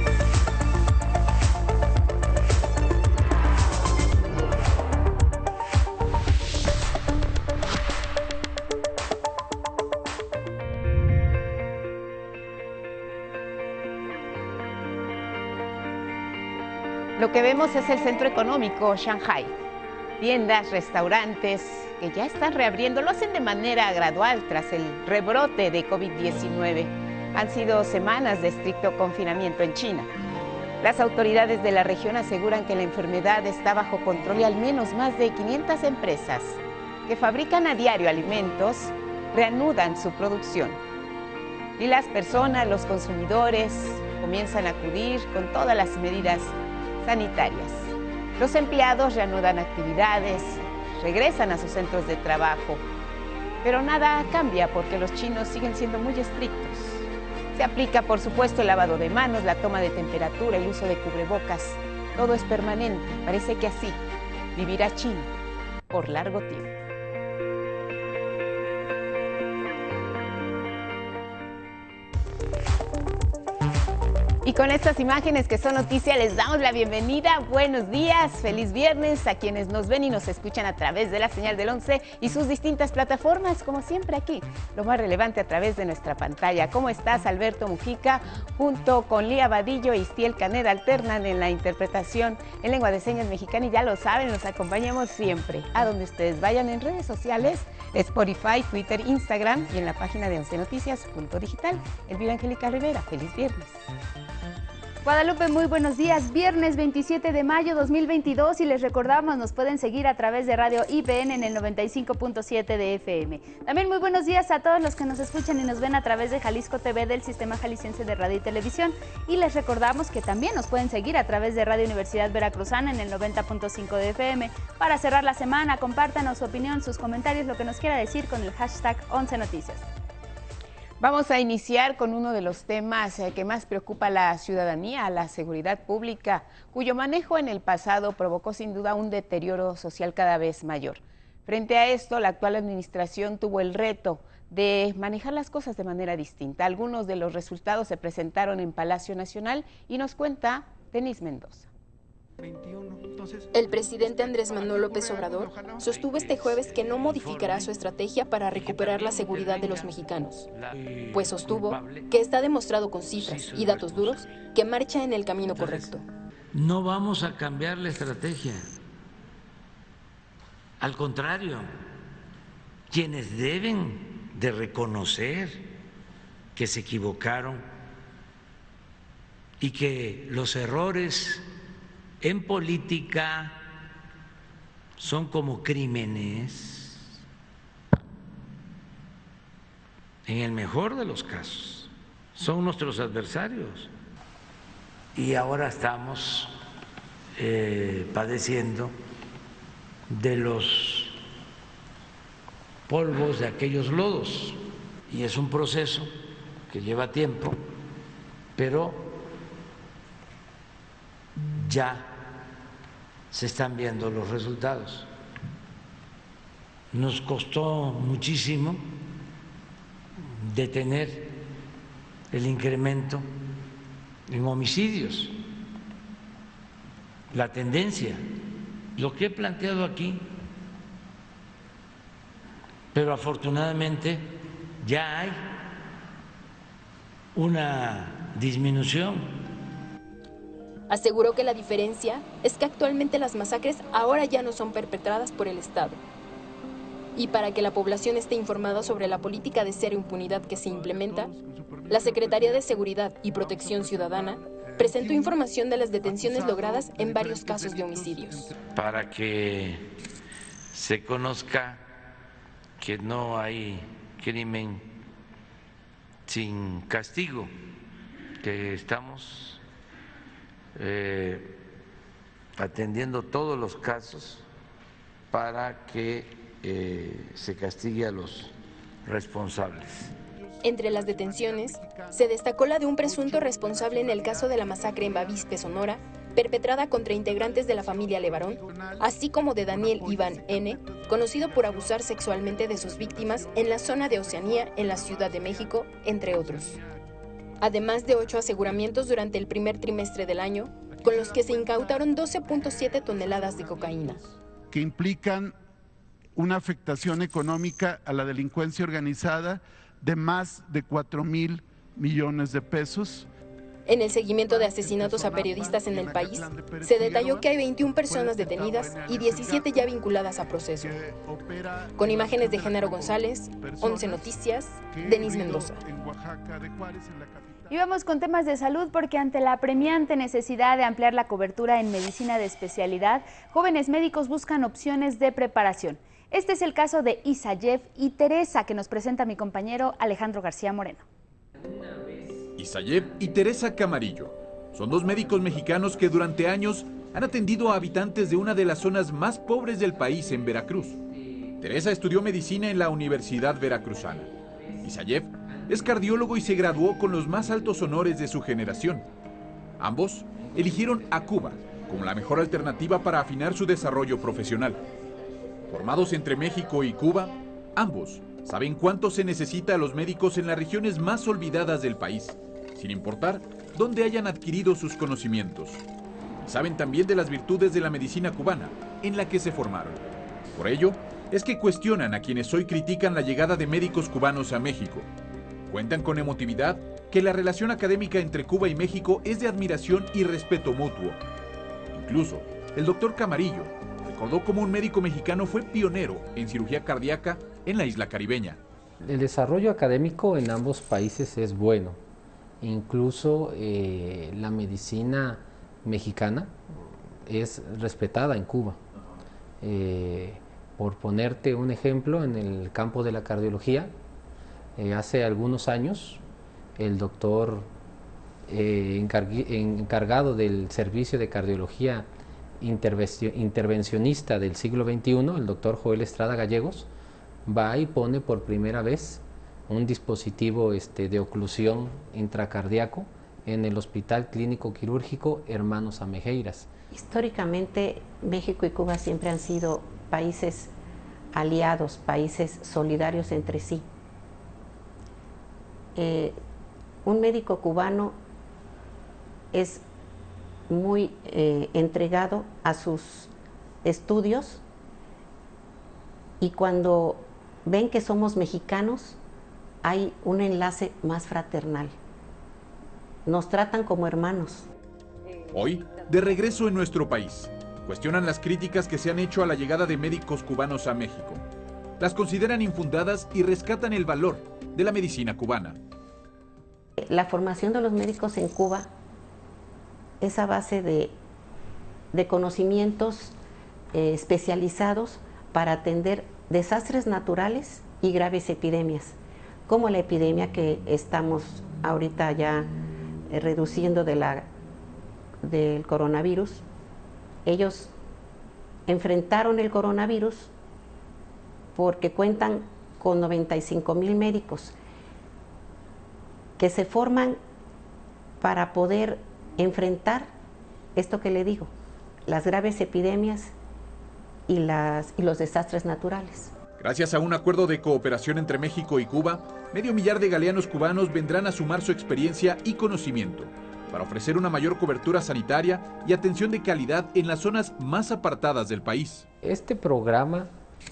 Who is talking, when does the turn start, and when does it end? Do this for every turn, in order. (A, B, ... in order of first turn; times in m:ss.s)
0:17.2-0:19.5 A
0:20.2-0:30.1 A
0:30.8-0:40.8 A
0:41.8-0:52.8 A
0:53.6-1:04.0 A
1:04.6-1:05.3 A
1:05.9-1:06.7 A
1:14.4-1:43.8 A
1:45.0-2:09.8 B
2:11.0-2:31.7 A
2:32.4-2:33.5 C
2:33.5-2:40.4 D
2:34.0-2:35.7 C
2:35.8-2:37.8 E
2:38.5-2:42.3 E
2:41.1-2:46.0 D
2:43.1-2:44.5 E
2:45.4-2:46.0 E
2:46.5-2:48.7 E
2:50.8-2:51.7 E
2:52.9-2:55.7 E
2:56.5-2:57.6 E
2:59.6-3:01.4 E
3:02.2-3:03.6 E
3:05.0-3:07.0 E
3:10.2-3:13.9 E
3:15.1-3:16.5 E
3:17.4-3:18.9 E
3:20.1-3:21.2 E
3:22.9-3:26.1 E
3:26.7-3:27.6 E
3:28.6-3:29.1 E
3:31.5-3:32.2 E
3:33.3-3:35.1 E
3:36.9-3:38.8 E
3:40.2-3:41.4 E
3:42.3-3:43.3 E
3:44.3-3:45.4 E
3:47.3-3:48.2 E
3:49.0-3:50.2 E
3:52.9-3:55.7 E
3:57.3-3:59.4 E
4:00.9-4:06.0 D
4:07.2-4:11.3 D
4:10.7-4:12.6 C
4:11.9-4:18.5 D
4:13.6-4:15.4 C
4:16.0-4:18.4 C
4:18.7-4:19.9 E
4:20.7-4:21.8 E
4:22.8-4:24.9 E
4:26.3-4:27.5 E
4:28.4-4:29.6 E
4:30.8-4:31.6 E
4:32.6-4:34.4 E
4:35.3-4:40.1 E
4:40.6-4:56.8 D
4:57.6-5:04.2 D
5:04.7-5:05.6 C
5:06.4-5:13.3 C
5:13.8-5:20.9 D
5:14.5-5:17.5 C
5:18.1-5:19.8 C
5:20.8-5:24.3 C
5:22.0-5:25.8 D
5:24.8-5:27.7 C
5:27.7-5:41.0 B
5:42.6-5:51.0 F
5:51.6-5:54.3 F
5:54.8-5:59.0 F
5:59.8-6:04.8 F
6:05.7-6:15.8 F
6:16.4-6:20.0 F
6:20.5-6:25.1 F
6:25.7-6:31.2 F
6:31.9-6:38.6 F
6:39.0-6:42.0 G
6:42.6-6:46.5 G
6:47.2-6:48.8 G
6:49.6-6:53.9 G
6:54.8-6:56.2 G
6:56.8-6:57.7 G
6:58.5-7:02.1 G
7:02.6-7:06.9 G
7:07.4-7:16.7 G
7:16.9-7:20.7 H
7:21.3-7:23.8 H
7:25.9-7:26.4 H
7:27.0-7:28.2 H
7:29.5-7:29.8 H
7:30.7-7:33.3 H
7:33.8-7:34.6 H
7:36.4-7:39.2 H
7:39.8-7:41.9 H
7:43.2-7:44.6 H
7:45.5-7:51.4 F
7:52.0-7:55.8 F
7:57.0-7:58.9 H
8:00.2-8:01.1 H
8:02.1-8:03.3 H
8:03.9-8:09.2 H
8:09.7-8:12.7 H
8:13.3-8:14.5 H
8:15.4-8:16.6 H
8:17.4-8:17.9 H
8:18.8-8:20.5 H
8:21.7-8:24.7 H
8:26.6-8:27.4 H
8:28.4-8:30.3 H
8:30.9-8:31.7 H
8:32.2-8:33.5 H
8:34.5-8:36.5 H
8:36.8-8:49.2 F
8:49.4-8:50.5 G